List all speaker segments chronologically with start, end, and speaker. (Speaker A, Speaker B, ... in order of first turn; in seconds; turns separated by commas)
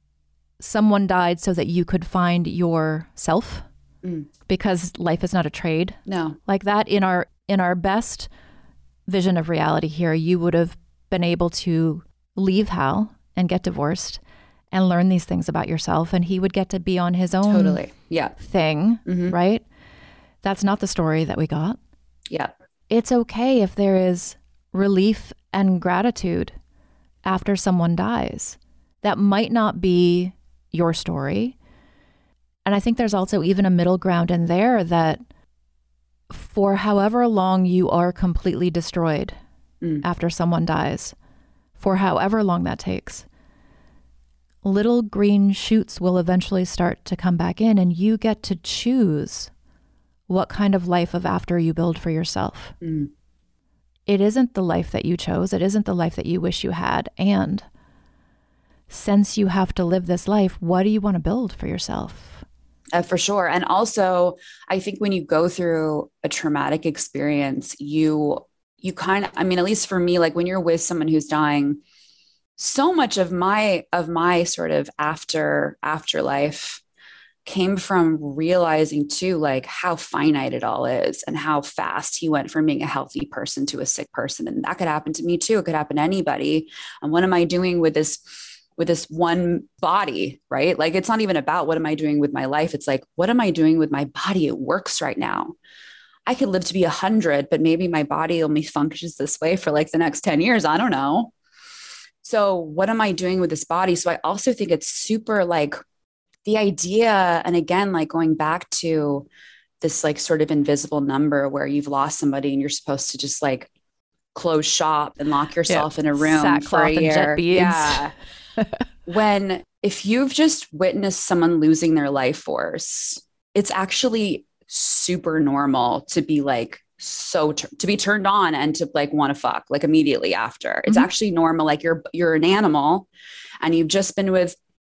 Speaker A: 0.6-3.7, Speaker A: 4.5-8.3, Speaker B: 6.1-6.4, Speaker A: 9.1-14.2, Speaker A: 14.7-17.8, Speaker B: 17.5-18.3, Speaker A: 18.4-19.6, Speaker B: 19.1-19.3, Speaker A: 20.4-21.8, Speaker A: 22.9-26.6, Speaker A: 27.2-31.5, Speaker A: 32.6-35.2, Speaker A: 36.3-39.4, Speaker A: 40.0-41.1, Speaker A: 41.8-43.2, Speaker A: 44.6-49.5, Speaker A: 50.3-52.7, Speaker B: 52.8-53.1, Speaker A: 54.1-57.6, Speaker A: 58.9-62.4, Speaker B: 62.9-71.8, Speaker B: 72.6-76.8, Speaker B: 77.4-88.2, Speaker B: 88.8-95.5, Speaker B: 96.2-101.3, Speaker B: 102.2-105.8, Speaker B: 106.4-109.2, Speaker B: 109.8-113.7, Speaker B: 114.3-118.1, Speaker A: 115.7-118.8, Speaker B: 119.1-133.1, Speaker B: 133.6-134.5